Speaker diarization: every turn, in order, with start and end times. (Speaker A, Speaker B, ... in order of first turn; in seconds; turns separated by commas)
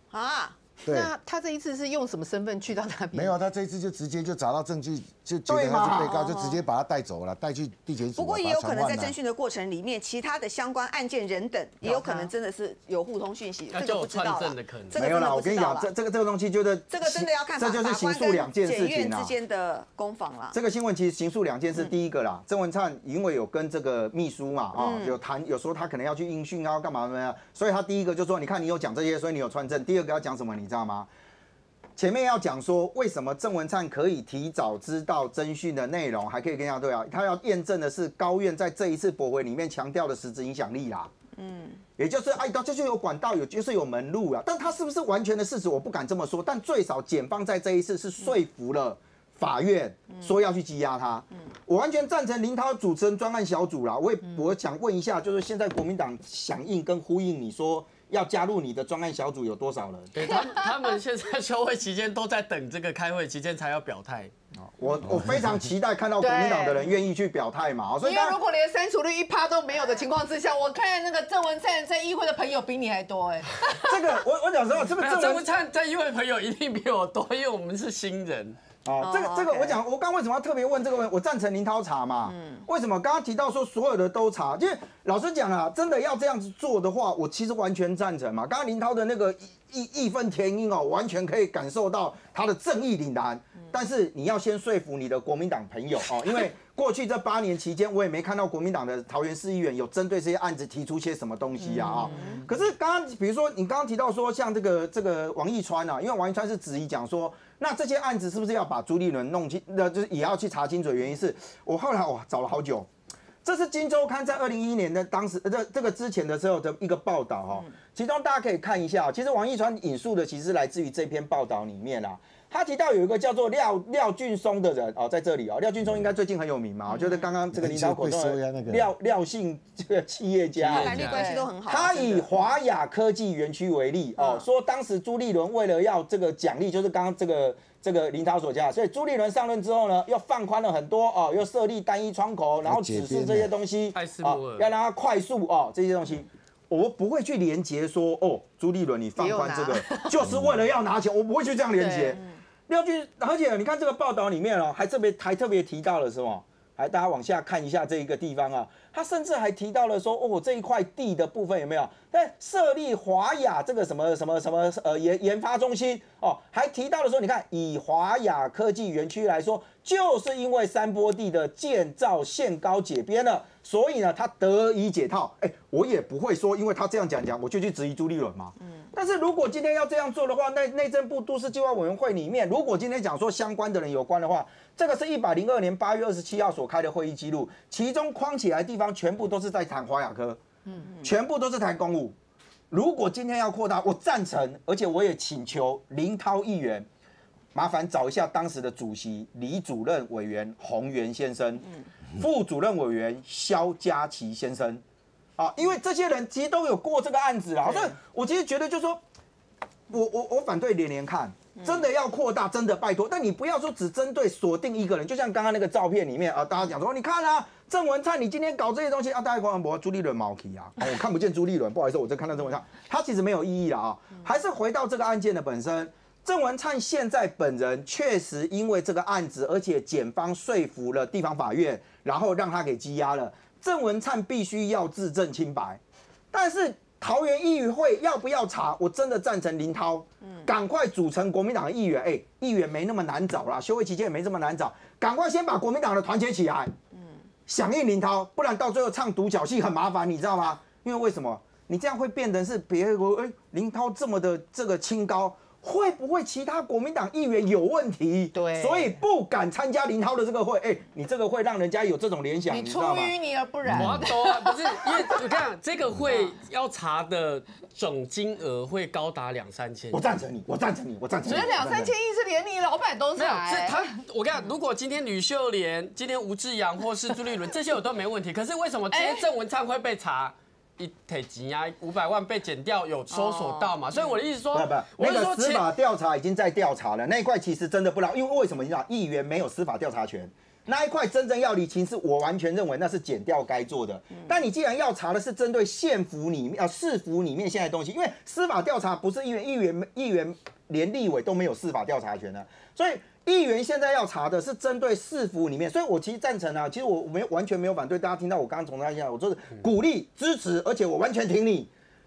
Speaker A: 0.1-0.6, Speaker B: 0.8-1.1, Speaker C: 0.9-3.4, Speaker B: 3.1-9.1, Speaker D: 5.5-6.1, Speaker A: 6.1-6.6, Speaker A: 8.2-15.9, Speaker C: 11.8-12.3, Speaker E: 13.7-14.9, Speaker D: 15.0-19.3, Speaker A: 16.9-20.6, Speaker D: 20.5-31.1, Speaker A: 24.8-25.2, Speaker D: 32.0-41.1, Speaker A: 41.3-41.8, Speaker D: 42.0-60.1, Speaker E: 60.1-64.3, Speaker D: 64.6-68.4, Speaker C: 66.2-67.0, Speaker C: 68.0-74.2, Speaker D: 73.8-75.5, Speaker E: 75.0-78.6, Speaker D: 78.8-112.9, Speaker A: 79.0-79.8, Speaker A: 82.3-82.7, Speaker C: 101.6-102.5, Speaker A: 102.1-102.4, Speaker D: 113.4-190.4, Speaker B: 127.5-128.9, Speaker E: 130.6-131.2, Speaker A: 130.7-132.3, Speaker C: 130.9-131.5, Speaker A: 134.2-134.5, Speaker B: 142.7-143.5, Speaker E: 143.9-144.7, Speaker C: 149.2-150.2, Speaker B: 150.2-150.6, Speaker C: 151.8-152.2, Speaker D: 191.0-192.2, Speaker D: 192.7-196.9, Speaker D: 197.5-201.7, Speaker D: 202.2-204.8, Speaker D: 205.4-209.0, Speaker D: 209.9-235.8, Speaker D: 236.3-246.7, Speaker A: 240.2-240.5, Speaker D: 247.5-263.1, Speaker C: 258.3-259.0, Speaker C: 262.5-265.1, Speaker E: 263.7-270.0, Speaker D: 269.9-271.9, Speaker C: 271.2-274.0, Speaker E: 273.1-285.6, Speaker C: 278.9-279.2, Speaker A: 283.1-283.8, Speaker D: 284.5-311.7